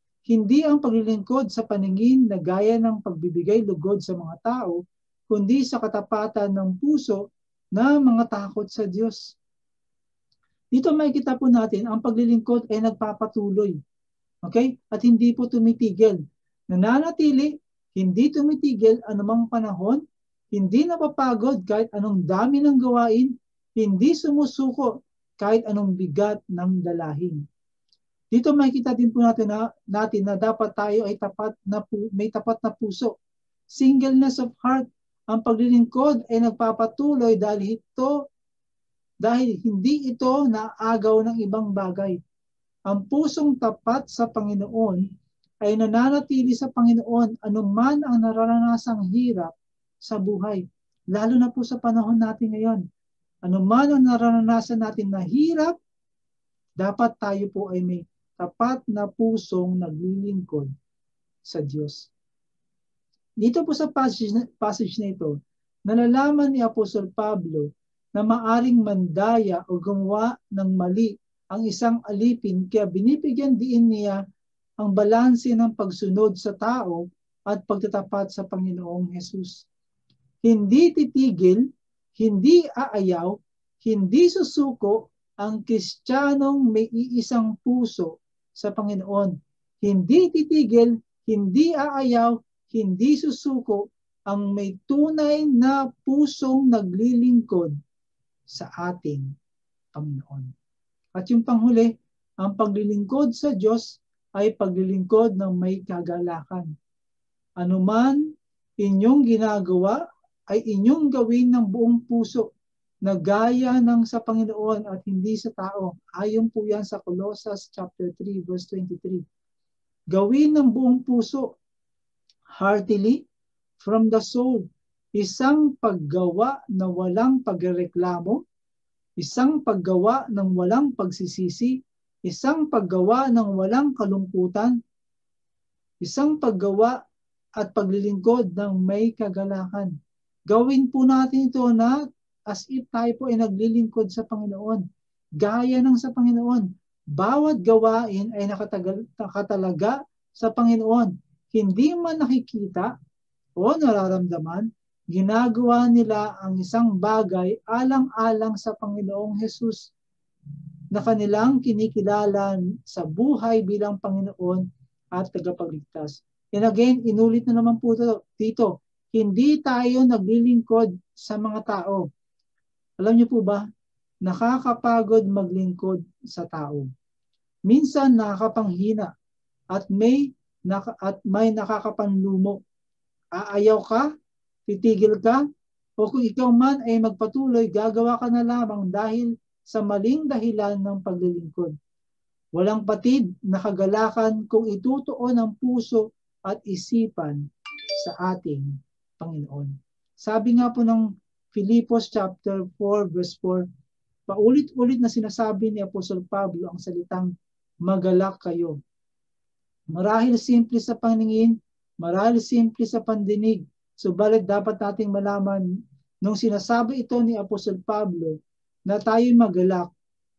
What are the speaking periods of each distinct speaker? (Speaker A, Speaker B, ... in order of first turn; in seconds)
Speaker A: 0.3-7.2, 7.8-9.2, 10.7-13.8, 14.4-16.2, 16.7-20.0, 20.5-27.4, 28.3-33.1, 33.7-38.1, 39.2-42.2, 42.9-45.0, 45.6-52.8, 53.5-55.8, 56.8-60.7, 61.5-62.1, 63.4-65.3, 65.9-74.2, 74.8-79.7, 80.4-81.7, 82.2-97.8, 98.5-99.3, 99.9-100.5, 101.2-101.9, 102.4-106.7, 107.6-108.2, 108.8-112.5, 113.0-119.2, 120.1-121.6, 122.5-123.2, 123.8-128.4, 129.2-134.8, 136.0-137.0, 137.6-139.9, 140.5-144.8, 145.4-152.9, 153.6-159.9, 160.9-172.1, 173.0-173.6, 174.2-176.9, 177.7-179.1, 179.7-182.6, 183.3-184.1, 184.7-185.4, 186.0-191.7, 192.6-197.4, 198.0-203.7, 204.3-207.3, 207.9-208.8, 209.9-215.7, 216.2-218.4, 218.9-219.9